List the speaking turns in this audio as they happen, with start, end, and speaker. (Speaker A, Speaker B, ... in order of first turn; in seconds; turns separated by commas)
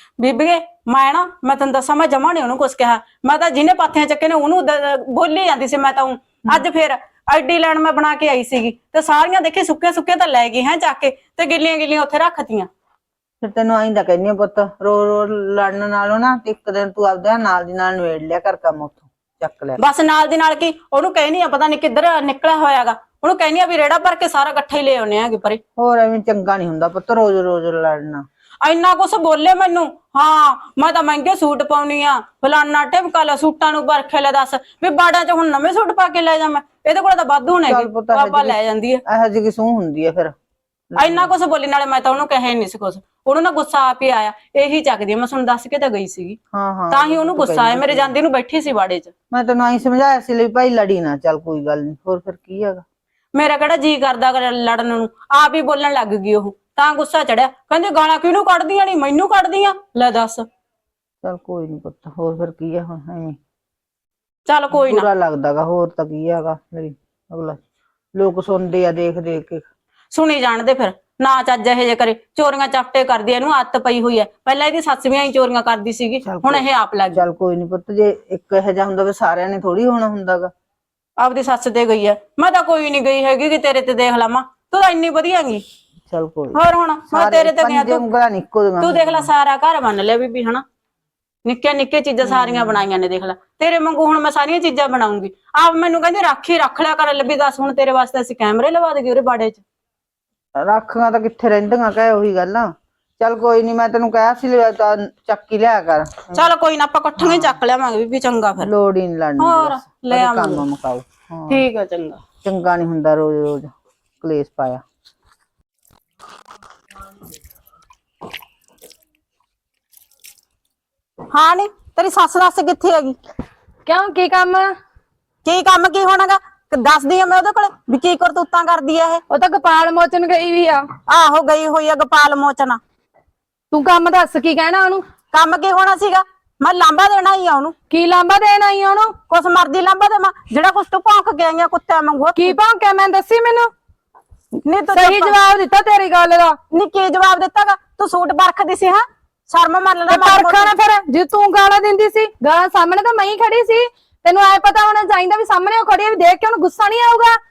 Speaker A: 0.2-12.7, Speaker B: 13.4-19.8, Speaker A: 19.8-25.6, Speaker B: 25.8-28.2, Speaker A: 28.6-39.0, Speaker B: 37.7-40.3, Speaker B: 40.9-41.3, Speaker A: 41.0-46.4, Speaker B: 46.5-48.1, Speaker A: 46.9-49.1, Speaker B: 49.3-52.8, Speaker A: 53.3-60.5, Speaker B: 61.2-63.4, Speaker A: 64.5-65.1, Speaker B: 64.7-67.6, Speaker B: 68.2-69.7, Speaker A: 70.1-77.2, Speaker B: 76.3-80.5, Speaker A: 81.2-85.6, Speaker B: 86.1-89.3, Speaker A: 86.5-88.0, Speaker A: 88.8-90.6, Speaker A: 91.5-99.6, Speaker B: 92.2-92.8, Speaker B: 100.6-106.5, Speaker A: 106.3-108.7, Speaker B: 107.2-107.6, Speaker B: 108.6-111.6, Speaker A: 109.4-110.7, Speaker A: 111.5-112.2, Speaker B: 112.4-114.8, Speaker A: 121.3-123.2, Speaker C: 123.9-124.7, Speaker A: 125.5-129.2, Speaker C: 129.3-130.9, Speaker A: 131.1-132.8, Speaker C: 133.7-135.0, Speaker A: 135.3-137.8, Speaker C: 137.9-139.2, Speaker A: 139.3-142.6, Speaker C: 142.4-143.7, Speaker A: 144.7-145.4, Speaker C: 144.9-146.6, Speaker A: 146.7-150.7, Speaker C: 150.1-157.4